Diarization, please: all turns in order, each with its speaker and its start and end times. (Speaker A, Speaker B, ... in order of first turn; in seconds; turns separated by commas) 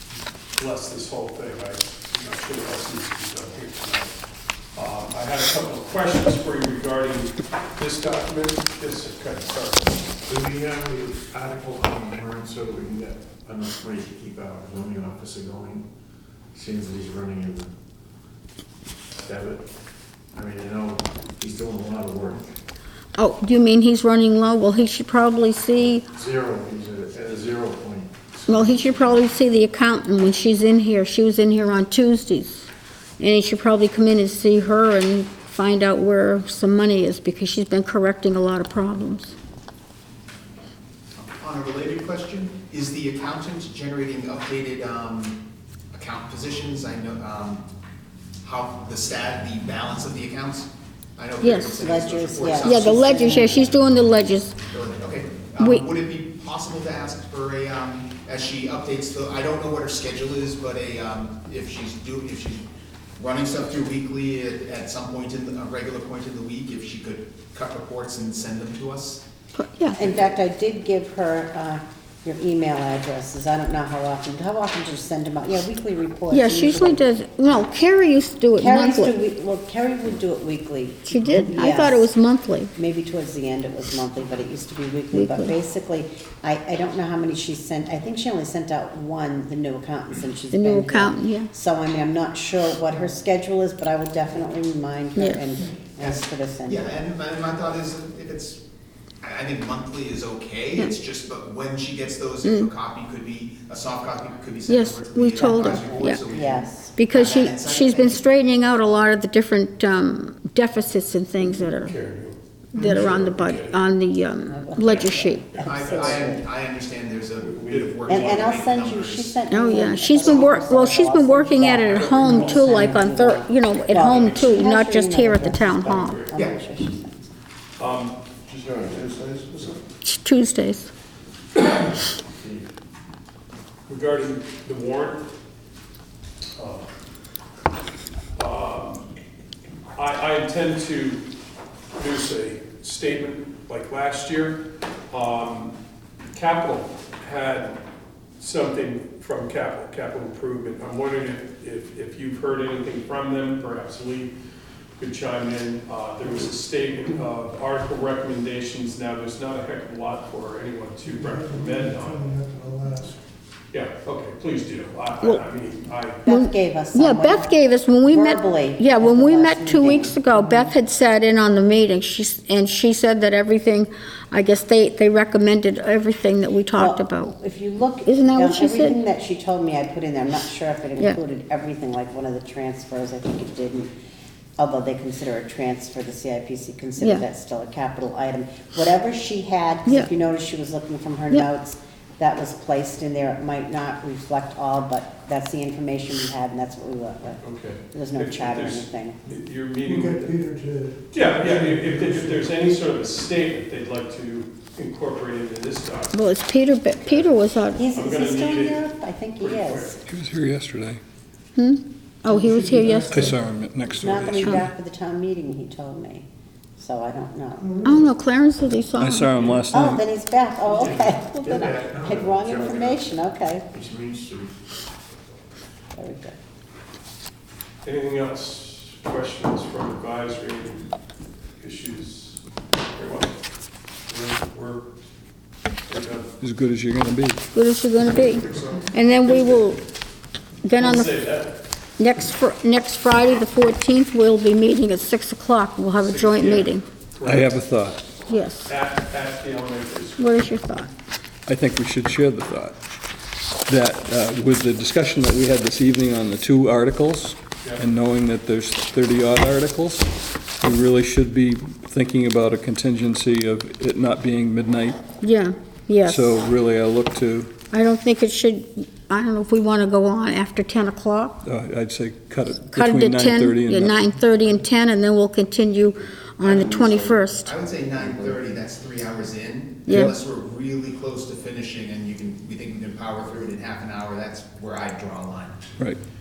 Speaker A: 0.5-4.1, Speaker A: 4.8-10.1, Speaker B: 10.3-15.9, Speaker B: 16.5-17.7, Speaker B: 19.2-19.6, Speaker B: 20.3-22.6, Speaker C: 23.1-26.1, Speaker B: 26.0-29.2, Speaker C: 28.5-32.7, Speaker C: 33.2-39.3, Speaker D: 41.1-45.4, Speaker D: 45.9-47.7, Speaker D: 48.4-53.8, Speaker C: 51.4-51.8, Speaker E: 51.8-53.7, Speaker C: 52.6-54.6, Speaker D: 54.7-62.7, Speaker C: 55.6-55.9, Speaker D: 63.2-69.2, Speaker C: 69.6-70.0, Speaker E: 70.0-77.1, Speaker D: 70.0-70.3, Speaker C: 76.3-79.2, Speaker E: 78.6-82.1, Speaker C: 81.1-82.7, Speaker E: 82.8-96.9, Speaker C: 85.1-85.5, Speaker C: 90.5-91.5, Speaker C: 95.2-95.5, Speaker D: 96.0-98.6, Speaker D: 99.2-108.3, Speaker C: 102.4-102.7, Speaker C: 104.7-106.2, Speaker E: 105.4-106.9, Speaker C: 107.0-112.0, Speaker A: 111.4-113.8, Speaker C: 112.7-115.5, Speaker E: 114.5-116.5, Speaker A: 115.5-116.3, Speaker D: 115.6-119.4, Speaker A: 117.5-118.0, Speaker E: 118.1-127.3, Speaker C: 119.5-126.2, Speaker D: 120.2-120.5, Speaker A: 121.8-122.9, Speaker A: 123.9-124.6, Speaker A: 125.7-126.4, Speaker A: 127.8-128.2, Speaker B: 128.5-129.8, Speaker C: 130.0-130.9, Speaker B: 132.3-132.7, Speaker A: 133.9-135.3, Speaker A: 136.6-136.9, Speaker A: 138.4-139.1, Speaker A: 140.0-141.2, Speaker A: 142.0-145.8, Speaker A: 146.3-147.8, Speaker A: 148.4-154.3, Speaker A: 155.0-162.3, Speaker F: 161.1-163.2, Speaker A: 163.7-166.2, Speaker E: 166.2-170.8, Speaker C: 166.3-177.4, Speaker E: 176.8-183.9, Speaker C: 178.1-179.0, Speaker E: 184.6-199.2, Speaker C: 187.0-187.2, Speaker A: 197.4-200.4, Speaker F: 199.9-202.4, Speaker A: 201.1-206.2, Speaker C: 206.1-207.9, Speaker A: 207.0-208.9, Speaker E: 207.8-210.0, Speaker A: 209.4-210.0, Speaker G: 210.1-211.0, Speaker C: 211.6-213.4, Speaker F: 212.3-213.2, Speaker G: 213.1-214.6, Speaker E: 214.0-216.3, Speaker E: 216.8-217.9, Speaker F: 217.6-218.0, Speaker C: 217.8-219.4, Speaker G: 219.0-220.1, Speaker E: 219.7-223.7, Speaker B: 220.8-223.1, Speaker A: 220.8-221.2, Speaker B: 223.7-224.9, Speaker E: 226.0-226.4, Speaker A: 227.8-230.9, Speaker A: 231.6-232.4, Speaker A: 232.9-233.4, Speaker A: 234.1-234.9, Speaker A: 235.9-236.3, Speaker G: 236.4-237.4, Speaker C: 237.5-239.8, Speaker A: 238.2-239.6, Speaker C: 240.6-241.2, Speaker A: 240.8-241.6, Speaker C: 242.0-246.8, Speaker A: 246.0-247.5, Speaker G: 247.2-248.0, Speaker C: 248.3-248.7, Speaker A: 248.7-250.6, Speaker C: 250.2-250.9, Speaker G: 251.5-252.8, Speaker G: 253.7-265.0, Speaker C: 265.2-266.4, Speaker G: 266.0-267.5, Speaker C: 267.7-271.4, Speaker G: 271.4-274.1, Speaker C: 272.7-277.5, Speaker D: 276.5-285.6, Speaker C: 279.9-280.1